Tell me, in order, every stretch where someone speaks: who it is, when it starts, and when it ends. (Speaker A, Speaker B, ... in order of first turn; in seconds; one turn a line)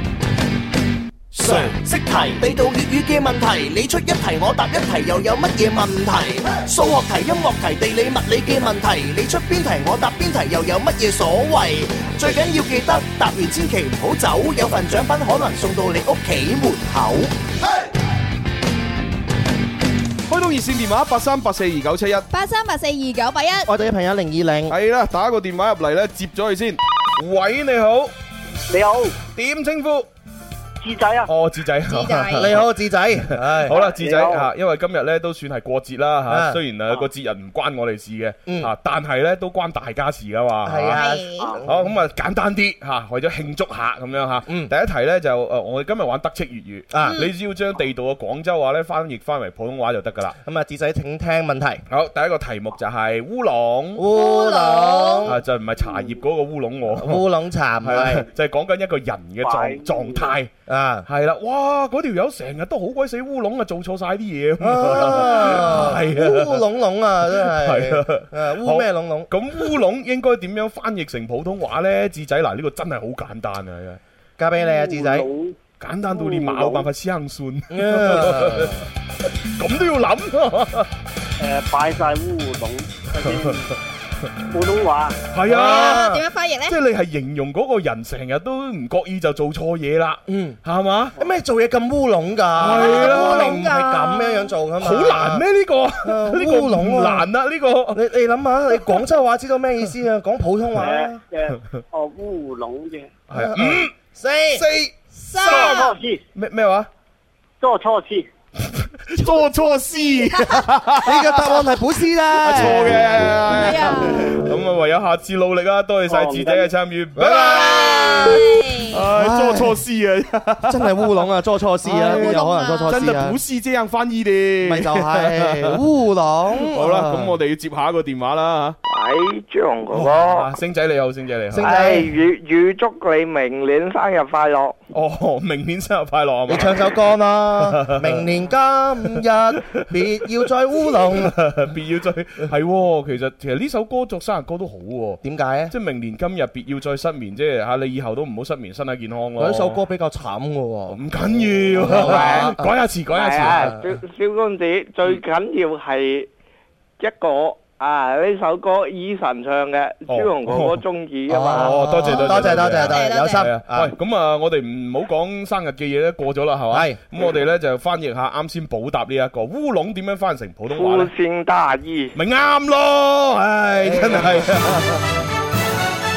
Speaker A: 1.3-17.3
Speaker B: 1.4-1.7
Speaker B: 20.3-22.3
Speaker C: 22.3-23.7
Speaker A: 23.7-24.7
Speaker B: 24.7-28.1
Speaker D: 28.7-29.1
Speaker B: 29.3-30.1
Speaker D: 30.8-31.3
Speaker B: 31.3-41.1
Speaker C: 31.9-32.5
Speaker A: 32.4-33.8
Speaker D: 33.7-34.5
Speaker A: 36.3-36.6
Speaker A: 38.5-38.7
Speaker A: 40.6-41.9
Speaker C: 40.9-41.5
Speaker B: 41.6-50.4
Speaker A: 44.5-44.7
Speaker A: 46.9-47.3
Speaker A: 50.4-51.8
Speaker B: 51.9-54.0
Speaker A: 54.0-55.4
Speaker C: 54.1-55.3
Speaker B: 55.2-57.3
Speaker A: 57.0-58.3
Speaker B: 57.8-60.5
Speaker D: 59.4-60.3
Speaker A: 60.7-61.1
Speaker B: 61.1-66.7
Speaker A: 64.6-69.3
Speaker B: 67.3-74.0
Speaker A: 74.4-75.3
Speaker D: 74.6-75.6
Speaker B: 75.8-78.8
Speaker D: 76.3-76.9
Speaker A: 77.7-78.8
Speaker B: 79.6-80.9
Speaker D: 81.4-83.7
Speaker B: 83.2-83.6
Speaker D: 84.5-85.2
Speaker B: 85.3-91.2
Speaker A: 85.5-85.9
Speaker C: 85.5-86.8
Speaker A: 90.3-90.6
Speaker A: 91.2-95.5
Speaker B: 92.5-93.9
Speaker C: 92.7-94.5
Speaker B: 94.8-98.0
Speaker A: 96.0-97.3
Speaker A: 97.9-101.2
Speaker B: 98.7-99.0
Speaker D: 100.8-103.1
Speaker B: 103.3-103.9
Speaker A: 103.3-104.6
Speaker B: 104.5-106.9
Speaker C: 105.3-105.9
Speaker D: 105.4-106.2
Speaker D: 107.6-108.3
Speaker B: 108.8-111.7
Speaker A: 111.0-113.3
Speaker B: 112.4-121.2
Speaker C: 113.4-114.4
Speaker D: 116.1-116.7
Speaker A: 117.2-118.4
Speaker C: 117.9-118.9
Speaker A: 119.2-119.8
Speaker A: 120.7-123.4
Speaker B: 121.8-125.8
Speaker C: 122.0-123.1
Speaker A: 124.6-127.4
Speaker B: 126.5-128.8
Speaker E: 128.9-130.5
Speaker B: 129.9-131.8
Speaker A: 131.5-132.1
Speaker E: 131.6-134.8
Speaker B: 134.9-138.4
Speaker A: 136.5-141.4
Speaker B: 139.2-149.8
Speaker A: 145.2-145.7
Speaker A: 149.4-152.7
Speaker B: 150.9-153.8
Speaker E: 151.9-152.5
Speaker E: 153.1-156.3
Speaker A: 153.5-153.8
Speaker E: 157.0-161.9
Speaker B: 160.1-160.8
Speaker A: 161.3-163.9
Speaker B: 161.4-171.1
Speaker C: 162.1-163.5
Speaker A: 166.7-167.0
Speaker E: 170.7-172.2
Speaker B: 172.2-174.9
Speaker A: 173.8-174.7